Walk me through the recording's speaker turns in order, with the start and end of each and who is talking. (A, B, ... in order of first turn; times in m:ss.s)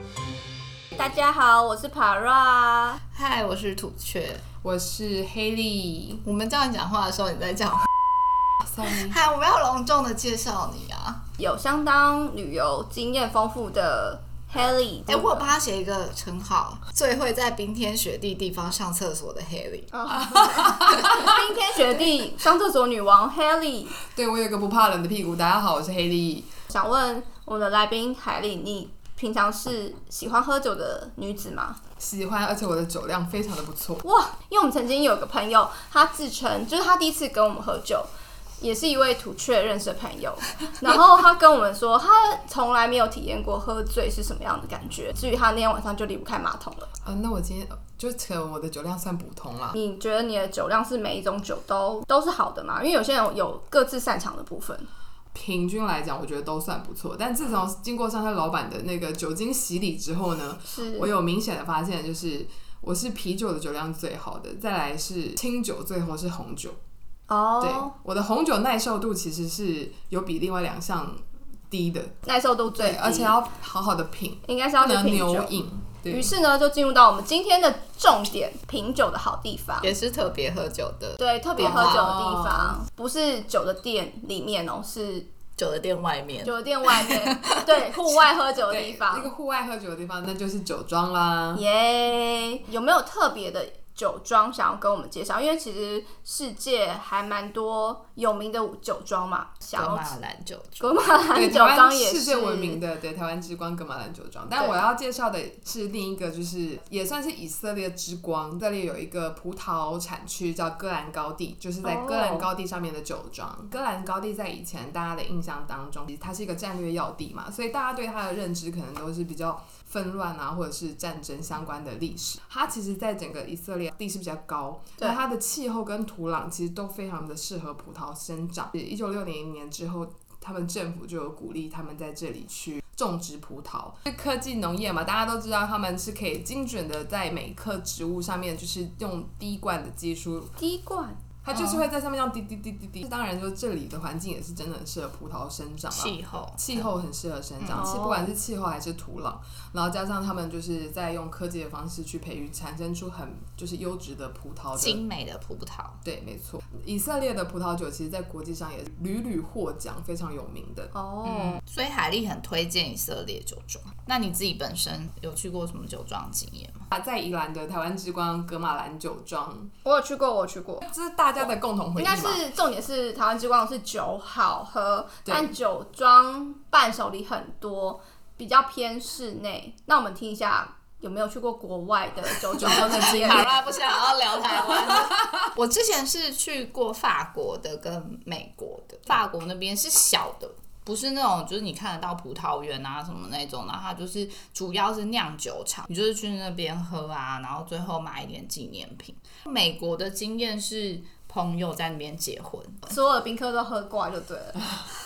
0:01.0-0:03.0 A
0:03.1-0:04.4 B
0:04.6-0:06.2 C
0:06.2-0:07.9 B
0:08.6-0:09.2 C
0:08.8-0:11.2 B
0:11.4-0:15.5 A
0:15.1-0:19.9 B
0:19.9-0:24.0 A
0:20.1-0:21.3 C
0:24.0-0:26.5 C
0:26.7-0:31.8 A
0:32.0-0:34.0 C
0:34.0-0:46.9 A
0:47.0-0:49.8 C
0:49.7-0:54.9 A
0:55.3-1:06.8 C
1:00.7-1:01.1 A
1:07.3-1:07.9 A
1:07.6-1:12.1 C
1:12.2-1:13.4 A
1:12.7-1:16.3 C
1:14.4-1:19.9 A
1:19.8-1:22.2 B
1:21.2-1:25.3 A
1:21.6-1:22.8 C
1:25.6-1:28.0 B
1:26.4-1:29.3 A
1:28.7-1:31.6 C
1:31.6-1:40.1 A
1:39.7-1:41.0 B
1:40.8-1:42.8 A
1:41.4-2:20.5 C
1:51.8-1:52.5 A
2:20.6-2:21.2 A
2:21.4-2:35.0 C
2:25.9-2:26.6 B
2:27.6-2:27.9 B
2:27.7-2:28.3 A
2:34.8-2:36.0 B
2:36.0-2:40.9 C
2:40.9-2:41.6 A
2:41.3-2:46.9 B
2:46.9-2:49.7 C
2:49.8-2:50.8 A
2:50.8-2:52.4 C
2:51.5-3:03.5 A
2:55.2-2:55.5 C
3:02.6-3:22.8 B
3:02.6-3:03.5 C
3:22.9-3:24.8 A